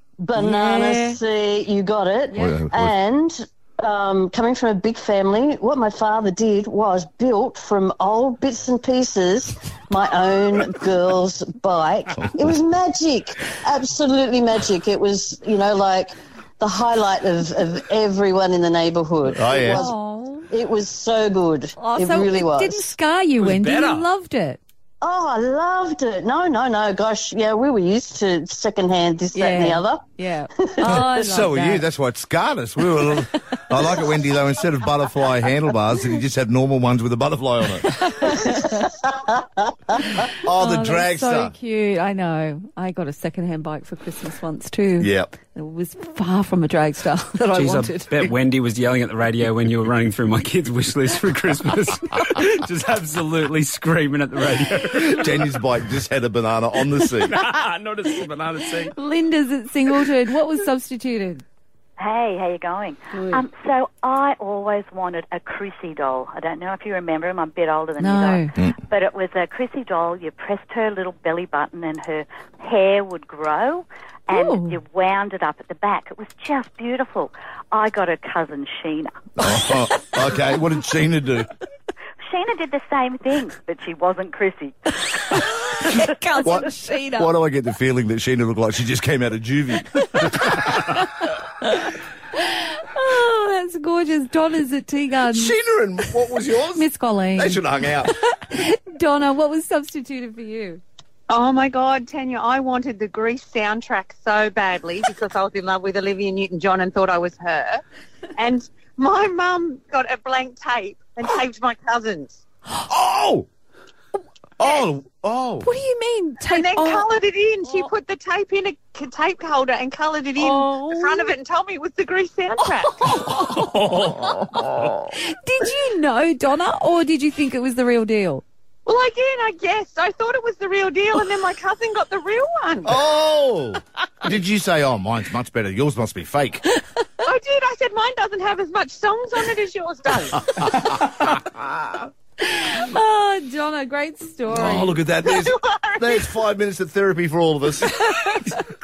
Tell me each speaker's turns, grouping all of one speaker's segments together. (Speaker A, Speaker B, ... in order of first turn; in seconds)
Speaker A: 0.2-20.0, 20.5-22.9, 25.0-30.1, 38.5-39.3
Speaker B: 0.3-1.2, 19.7-20.5, 21.8-24.6, 29.3-31.8, 37.8-38.9, 40.5-48.1, 58.9-61.4, 63.1-63.4, 68.0-68.5, 74.3-74.8, 85.6-87.3, 92.4-95.6, 96.8-100.8, 115.6-117.1, 120.4-121.3, 123.0-124.6, 125.1-128.4, 142.4-145.0
Speaker C: 2.3-3.0, 12.2-12.5, 19.2-19.8, 30.8-37.9, 40.4-41.5, 45.0-45.3, 54.9-57.4, 79.4-81.5, 86.4-90.8, 95.3-98.1, 112.9-113.5, 114.6-115.7, 123.6-125.1, 132.8-136.6, 141.5-141.7, 144.5-147.9
Speaker D: 23.4-24.1, 47.5-55.3, 57.2-58.9
Speaker E: 62.0-79.2, 82.3-85.4
Speaker F: 101.3-107.8, 108.4-112.4, 116.5-123.0, 128.9-133.0, 137.2-140.7, 145.3-146.2